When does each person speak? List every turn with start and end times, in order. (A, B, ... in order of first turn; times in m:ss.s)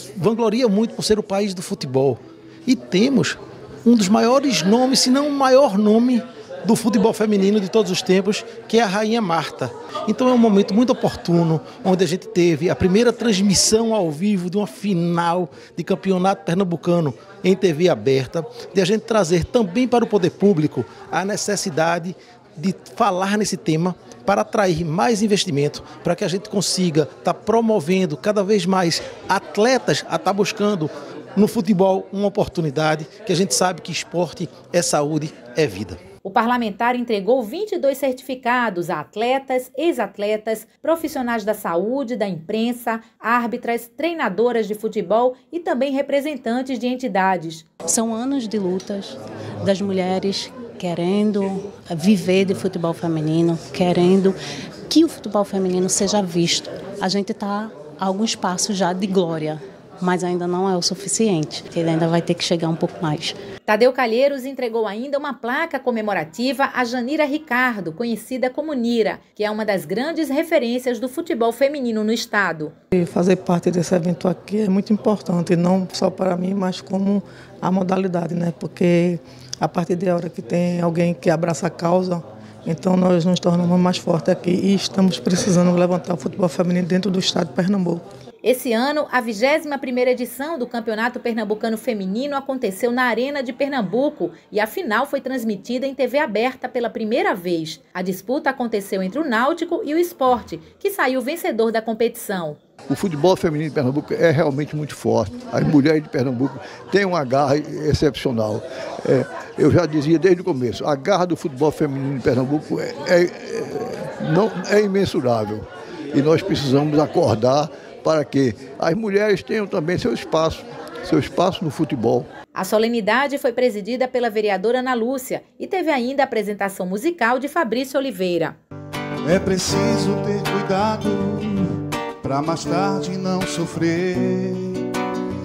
0:00.2-0:36.0 A
0:36.2-0:47.7 B
0:47.9-0:54.4 C
0:54.9-1:03.4 C
1:03.7-1:12.7 B
1:12.9-1:28.0 D
1:28.4-1:42.6 B
1:42.9-2:02.3 E
2:02.6-2:08.6 B
2:09.2-2:14.9 F